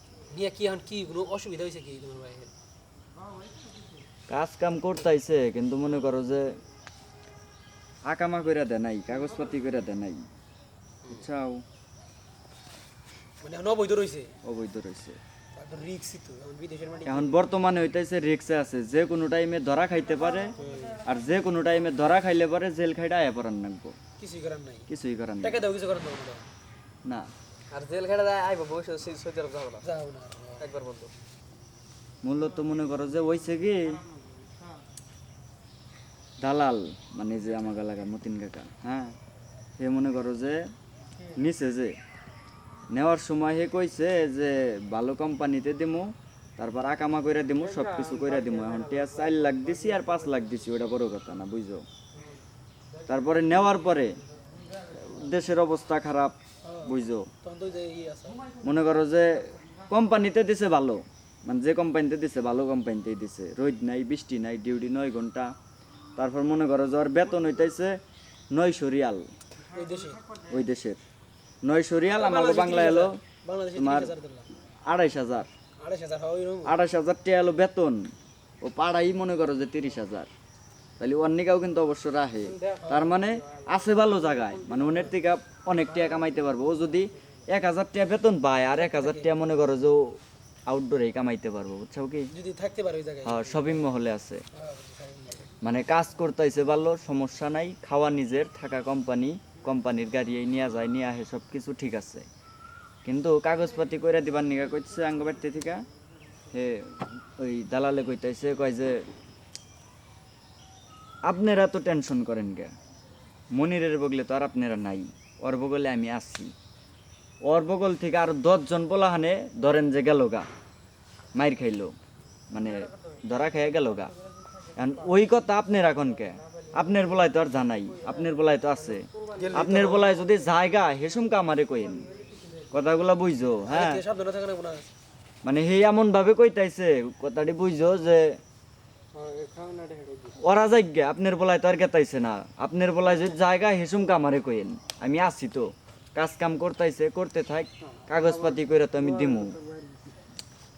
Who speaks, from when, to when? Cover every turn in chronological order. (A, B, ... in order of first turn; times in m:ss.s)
0:00.3-0:02.5 A
0:04.3-0:06.6 B
0:08.1-0:10.2 B
0:11.1-0:11.6 B
0:13.4-0:14.3 A
0:14.4-0:15.2 B
0:15.6-0:17.4 A
0:17.1-0:24.0 B
0:20.6-0:21.0 A
0:24.2-0:24.9 A
0:24.9-0:25.6 B
0:25.4-0:26.5 A
0:27.7-0:29.9 C
0:29.9-0:30.7 A
0:30.6-0:31.1 C
0:32.2-0:34.0 B
0:36.4-0:39.2 B
0:39.8-0:40.7 B
0:41.3-0:42.0 B
0:42.9-0:51.9 B
0:47.8-0:49.7 C
0:53.1-0:54.2 B
0:54.9-0:57.3 B
0:56.7-0:58.4 A
0:58.6-1:05.5 B
1:06.2-1:08.0 B
1:08.5-1:09.3 B
1:09.7-1:10.2 A
1:10.5-1:11.0 B
1:11.6-1:13.2 B
1:12.1-1:14.5 A
1:13.8-1:14.1 B
1:14.8-1:15.5 B
1:15.8-1:16.8 A
1:16.6-1:20.3 B
1:21.0-1:32.3 B
1:22.8-1:23.1 A
1:28.8-1:29.3 A
1:32.3-1:33.8 A
1:33.2-1:34.4 B
1:34.5-1:35.5 A
1:35.6-1:42.3 B
1:43.0-1:45.8 B
1:46.5-1:49.0 B
1:51.3-1:52.8 B
1:53.5-1:56.5 B
1:57.4-2:00.5 B
2:01.4-2:01.9 B
2:02.5-2:04.1 B
2:04.8-2:12.1 B
2:09.4-2:10.1 A
2:12.7-2:14.0 B
2:13.6-2:14.9 A
2:15.4-2:18.4 B
2:19.2-2:20.4 C
2:20.4-2:29.6 B
2:29.4-2:30.0 C